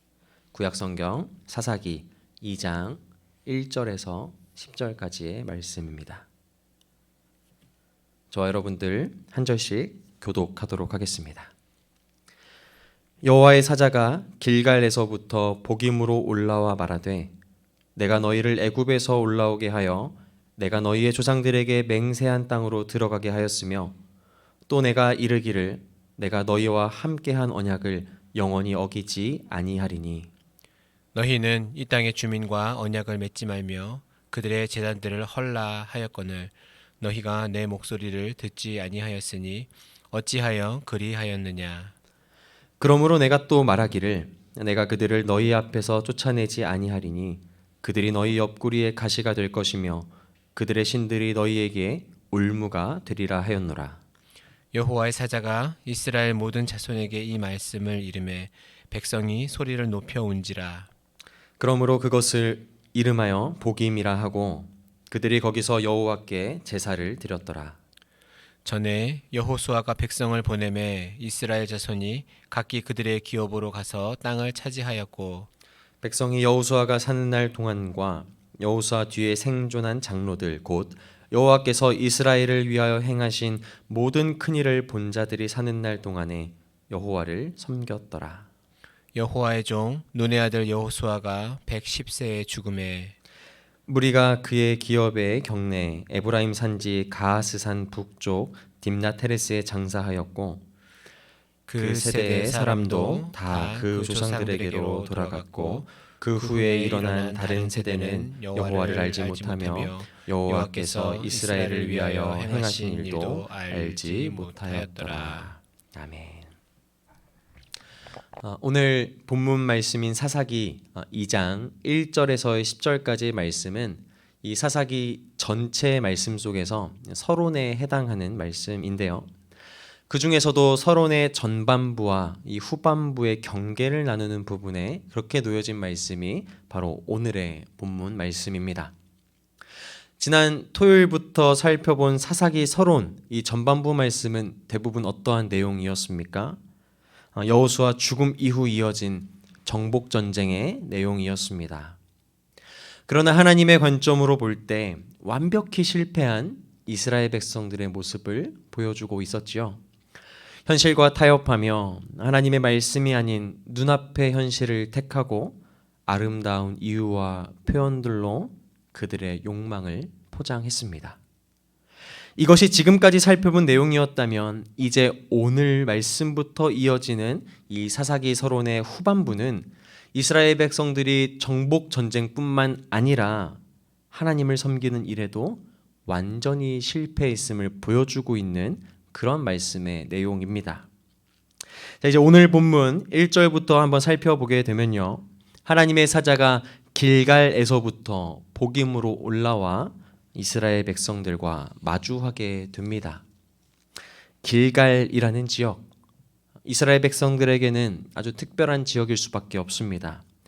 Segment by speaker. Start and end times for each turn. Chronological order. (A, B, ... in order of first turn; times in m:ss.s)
0:00.5-0:06.2 A
0:08.3-0:11.5 A
0:13.2-0:17.3 A
0:18.0-0:24.0 A
0:24.7-0:30.3 A
0:31.1-0:41.9 B
0:42.8-0:54.0 A
0:54.7-1:00.9 B
1:01.6-1:07.8 A
1:08.6-1:15.5 B
1:16.0-1:28.5 A
1:29.1-1:33.1 B
1:33.9-1:40.6 A
1:41.7-1:55.5 B
1:41.8-1:56.5 A
1:58.4-2:09.3 A
2:10.1-2:18.9 A
2:20.2-2:26.6 A
2:27.3-2:32.0 A
2:33.1-2:39.8 A
2:40.7-2:51.2 A
2:52.4-3:03.6 A
3:04.1-3:10.9 A
3:12.0-3:23.2 A
3:24.4-3:25.8 A
3:26.6-3:30.2 A